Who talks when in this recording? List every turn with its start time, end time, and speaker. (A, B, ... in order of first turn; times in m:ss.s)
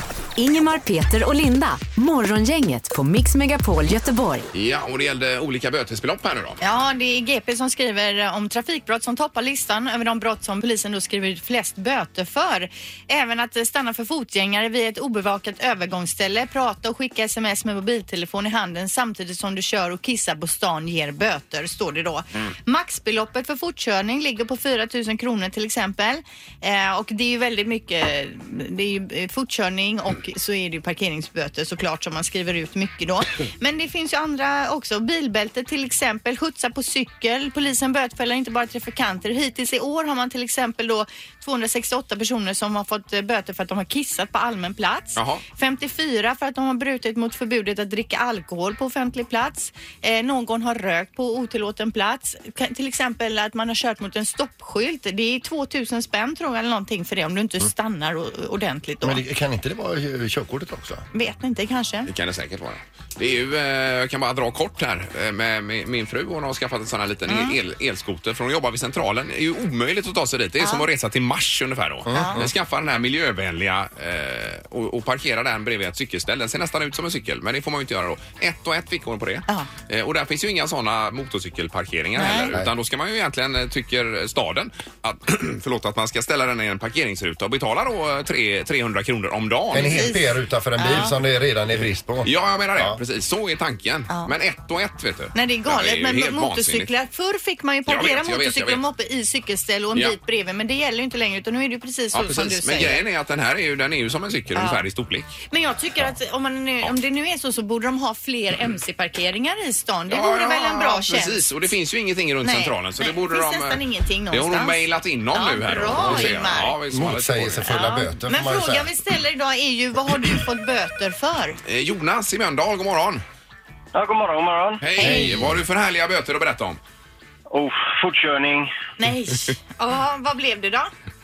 0:00.4-0:04.4 A
0:04.5-0:06.6 B
0:06.6-0:59.2 C
0:45.2-0:45.4 B
0:59.0-1:01.0 D
1:01.1-1:02.1 C
1:02.1-1:30.1 B
1:07.3-1:07.6 C
1:10.6-1:10.9 C
1:12.1-1:12.5 D
1:12.1-1:12.4 C
1:22.2-1:22.5 C
1:29.7-1:33.0 D
1:29.8-1:30.2 C
1:30.8-1:31.1 C
1:32.2-1:36.9 B
1:35.3-1:43.0 C
1:37.9-1:38.8 B
1:42.1-1:45.3 B
1:44.6-1:44.8 C
1:45.5-1:51.4 C
1:50.1-1:57.7 B
1:52.4-1:56.7 C
1:56.9-1:58.9 D
1:57.7-2:01.6 C
2:01.6-2:03.2 B
2:03.9-2:04.8 E
2:04.8-2:06.8 B
2:05.0-2:05.4 C
2:05.0-2:05.6 D
2:07.5-2:08.7 E
2:09.0-2:10.9 C